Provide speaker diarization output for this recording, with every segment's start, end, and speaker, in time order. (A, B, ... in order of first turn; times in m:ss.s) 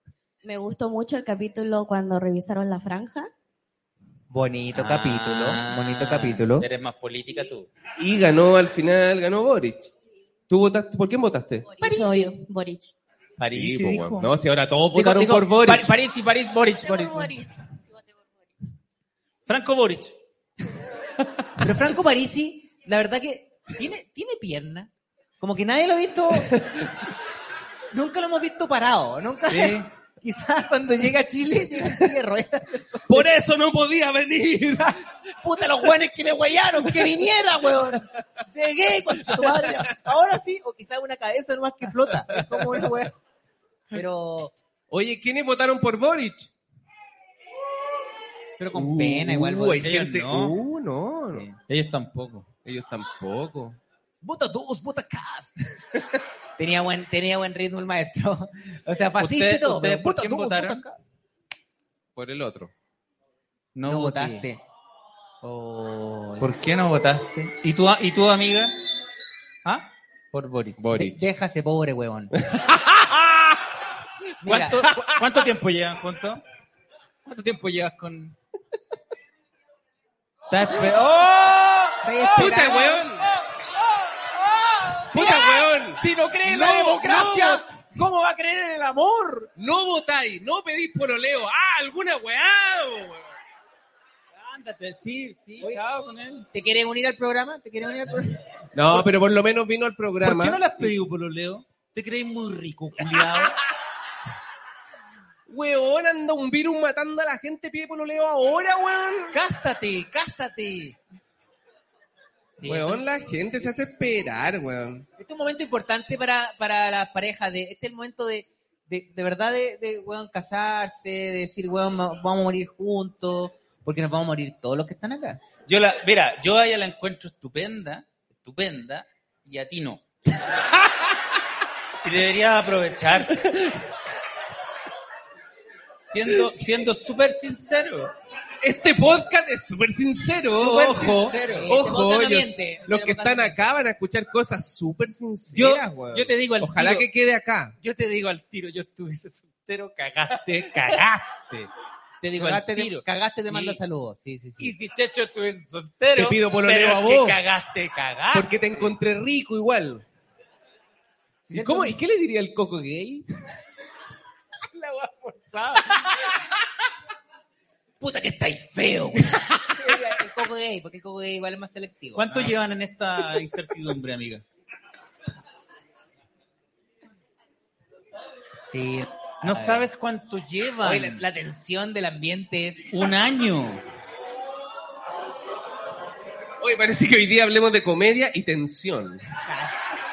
0:00.4-0:03.3 A
0:04.3-0:06.6 B
0:04.7-0:07.7 C
0:08.0-0:09.9 D
0:10.5-0:11.7 D
0:11.7-0:12.9 A
0:11.8-0:12.3 B
0:13.4-0:14.3 C
0:13.5-0:15.9 D
0:14.9-0:17.3 B
0:16.8-0:18.1 A
0:19.5-0:20.1 C
0:21.6-0:26.6 B
0:27.9-0:33.3 B
0:29.4-0:29.9 C
0:33.1-0:34.9 D
0:35.4-0:43.1 B
0:39.3-0:39.8 D
0:43.9-0:44.5 B
0:44.9-0:46.5 D
0:48.6-0:49.9 B
0:48.7-0:51.5 D
0:49.8-0:50.6 C
0:51.6-0:52.5 C
0:52.6-0:53.8 D
0:54.2-0:55.5 B
0:56.6-1:01.0 B
0:59.2-1:00.8 C
1:02.2-1:02.7 D
1:03.7-1:04.4 C
1:03.8-1:04.6 B
1:05.4-1:06.5 B
1:06.4-1:08.7 C
1:09.6-1:11.2 C
1:10.9-1:12.3 B
1:12.5-1:13.4 D
1:14.4-1:15.1 B
1:14.4-1:16.4 C
1:17.2-1:18.3 C
1:20.5-1:23.3 C
1:22.0-1:23.0 B
1:22.4-1:23.2 D
1:24.2-1:25.4 C
1:25.1-1:27.6 D
1:25.1-1:29.5 B
1:29.6-1:33.2 D
1:34.3-1:36.5 C
1:36.5-1:38.4 B
1:38.7-1:40.9 D
1:40.2-1:43.6 C
1:45.5-1:49.4 D
1:49.3-1:51.0 C
1:52.6-1:53.0 B
1:52.6-1:55.0 D
1:55.2-2:05.4 B
2:05.7-2:10.0 C
2:12.0-2:13.5 C
2:13.4-2:13.8 D
2:16.0-2:18.1 C
2:18.6-2:27.7 D
2:20.5-2:21.7 C
2:21.3-2:23.7 B
2:25.5-2:27.1 C
2:27.8-2:31.7 C
2:30.5-2:31.0 D
2:32.2-2:33.8 C
2:32.3-2:34.7 B
2:34.6-2:38.9 C
2:36.2-2:37.4 D
2:38.3-2:40.0 D
2:41.5-2:42.0 B
2:41.5-2:43.2 D
2:44.8-2:46.1 C
2:48.0-2:49.3 C
2:49.7-2:52.5 B
2:52.2-2:54.4 C
2:58.7-2:59.8 B
2:59.4-3:01.2 C
3:00.8-3:02.9 B
3:02.9-3:03.8 C
3:06.6-3:09.2 D
3:09.4-3:09.7 B